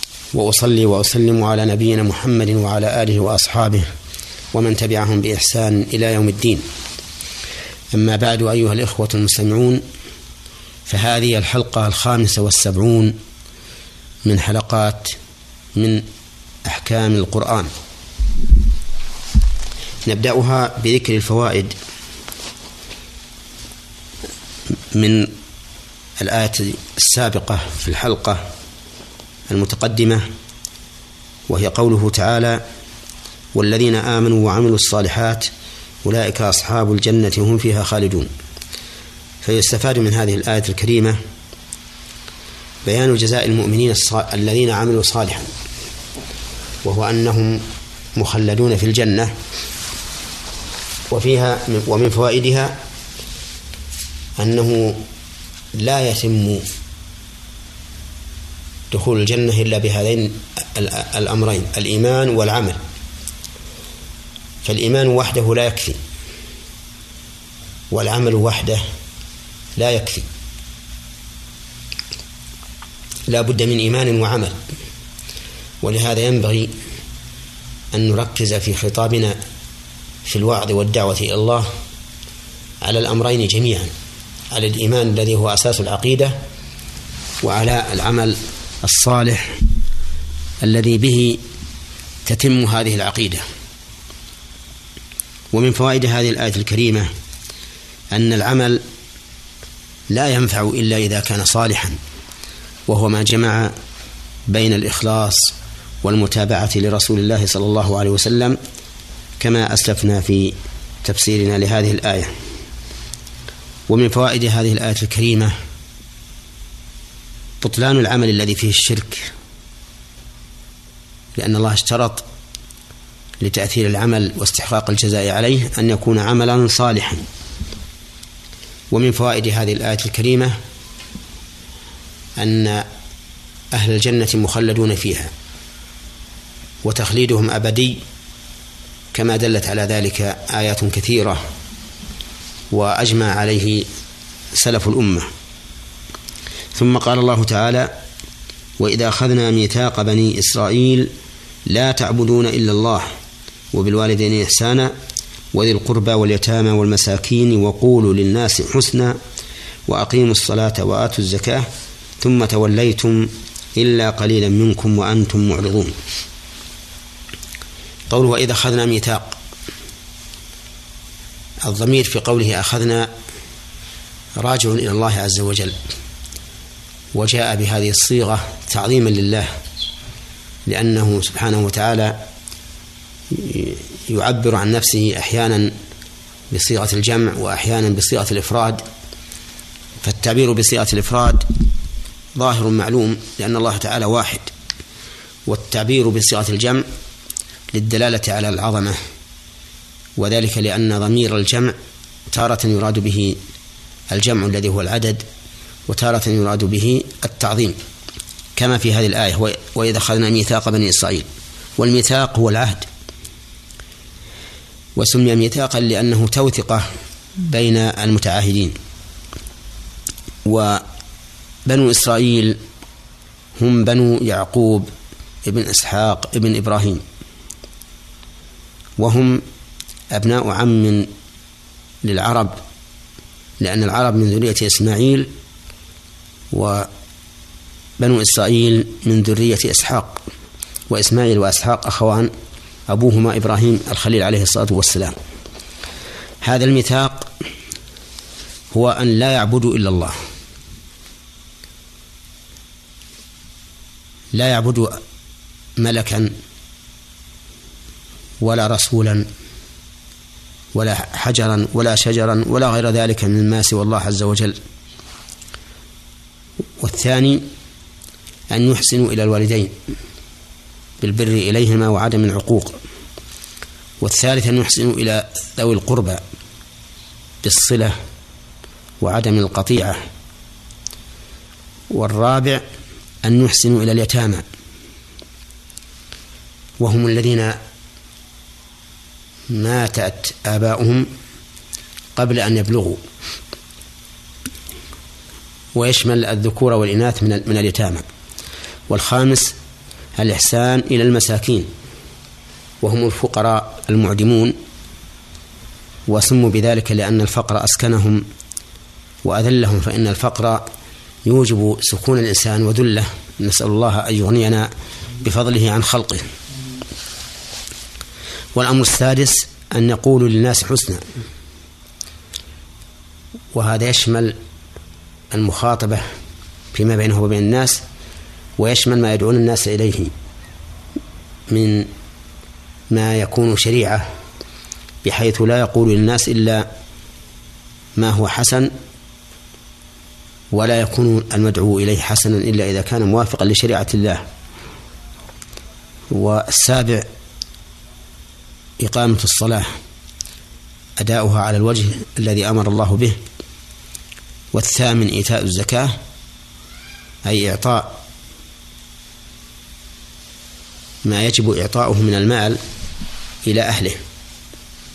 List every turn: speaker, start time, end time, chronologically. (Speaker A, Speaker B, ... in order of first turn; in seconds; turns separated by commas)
Speaker A: 0.3-3.9, Speaker A: 4.5-6.6, Speaker A: 7.9-9.8, Speaker A: 10.9-13.1, Speaker A: 14.2-15.2, Speaker A: 15.8-16.0, Speaker A: 16.6-17.7, Speaker A: 20.1-21.7, Speaker A: 24.9-25.3, Speaker A: 26.2-28.4, Speaker A: 29.5-30.2, Speaker A: 31.5-32.6, Speaker A: 33.5-35.5, Speaker A: 36.0-38.3, Speaker A: 39.4-41.2, Speaker A: 42.9-45.5, Speaker A: 46.8-47.6, Speaker A: 48.2-49.3, Speaker A: 51.1-52.8, Speaker A: 54.4-55.0, Speaker A: 55.8-56.6, Speaker A: 58.9-62.8, Speaker A: 64.6-66.0, Speaker A: 67.9-68.8, Speaker A: 69.8-70.3, Speaker A: 73.3-74.6, Speaker A: 75.8-76.7, Speaker A: 77.9-79.4, Speaker A: 80.2-81.7, Speaker A: 82.8-83.9, Speaker A: 84.5-86.4, Speaker A: 87.4-89.6, Speaker A: 90.6-91.4, Speaker A: 92.2-93.4, Speaker A: 95.5-97.1, Speaker A: 98.1-98.8, Speaker A: 100.1-102.0, Speaker A: 102.9-103.7, Speaker A: 104.5-108.6, Speaker A: 109.4-112.3, Speaker A: 113.9-115.5, Speaker A: 117.6-119.3, Speaker A: 121.4-122.2, Speaker A: 123.4-127.2, Speaker A: 128.9-130.5, Speaker A: 132.4-132.9, Speaker A: 133.7-135.3, Speaker A: 136.8-138.0, Speaker A: 139.1-141.4, Speaker A: 142.7-143.9, Speaker A: 144.6-145.3, Speaker A: 146.7-147.9, Speaker A: 148.8-151.1, Speaker A: 151.7-153.1, Speaker A: 153.7-154.9, Speaker A: 155.5-159.2, Speaker A: 159.9-161.7, Speaker A: 162.2-165.9, Speaker A: 168.1-169.4, Speaker A: 171.6-173.1, Speaker A: 174.4-175.8, Speaker A: 177.1-179.5, Speaker A: 180.7-182.2, Speaker A: 183.3-185.7, Speaker A: 186.5-188.8, Speaker A: 190.0-191.5, Speaker A: 192.4-194.5, Speaker A: 195.5-196.9, Speaker A: 197.7-199.0, Speaker A: 200.2-201.8, Speaker A: 202.3-203.4, Speaker A: 204.1-205.2, Speaker A: 205.9-207.8, Speaker A: 208.6-211.3, Speaker A: 211.8-212.9, Speaker A: 215.0-216.8, Speaker A: 217.4-218.7, Speaker A: 220.4-220.8, Speaker A: 221.7-222.6, Speaker A: 223.6-224.9, Speaker A: 225.4-227.0, Speaker A: 229.0-229.4, Speaker A: 230.1-231.1, Speaker A: 232.0-232.6, Speaker A: 233.6-235.3, Speaker A: 236.5-236.9, Speaker A: 238.0-240.2, Speaker A: 240.9-242.3, Speaker A: 242.9-245.2, Speaker A: 246.4-247.3, Speaker A: 248.7-250.2, Speaker A: 254.3-255.0, Speaker A: 255.8-256.3, Speaker A: 258.4-259.3, Speaker A: 260.7-264.6, Speaker A: 266.8-267.4, Speaker A: 268.5-269.7, Speaker A: 271.0-272.8, Speaker A: 274.0-276.2, Speaker A: 277.4-277.9, Speaker A: 279.0-280.0, Speaker A: 281.9-282.6, Speaker A: 283.2-284.4, Speaker A: 286.8-287.6, Speaker A: 289.5-291.1, Speaker A: 292.2-293.0, Speaker A: 295.8-298.0, Speaker A: 298.9-299.5, Speaker A: 300.2-301.7, Speaker A: 302.8-304.5, Speaker A: 306.1-308.2, Speaker A: 309.2-310.6, Speaker A: 311.2-314.7, Speaker A: 315.2-316.3, Speaker A: 318.6-321.0, Speaker A: 323.5-324.4, Speaker A: 325.3-326.1, Speaker A: 326.7-327.8, Speaker A: 328.6-330.1, Speaker A: 331.5-331.9, Speaker A: 332.9-334.0, Speaker A: 335.0-336.7, Speaker A: 338.0-338.7, Speaker A: 340.5-344.2, Speaker A: 346.1-347.1, Speaker A: 348.8-349.7, Speaker A: 351.0-353.2, Speaker A: 354.5-355.9, Speaker A: 357.2-358.0, Speaker A: 361.0-362.6, Speaker A: 363.4-364.0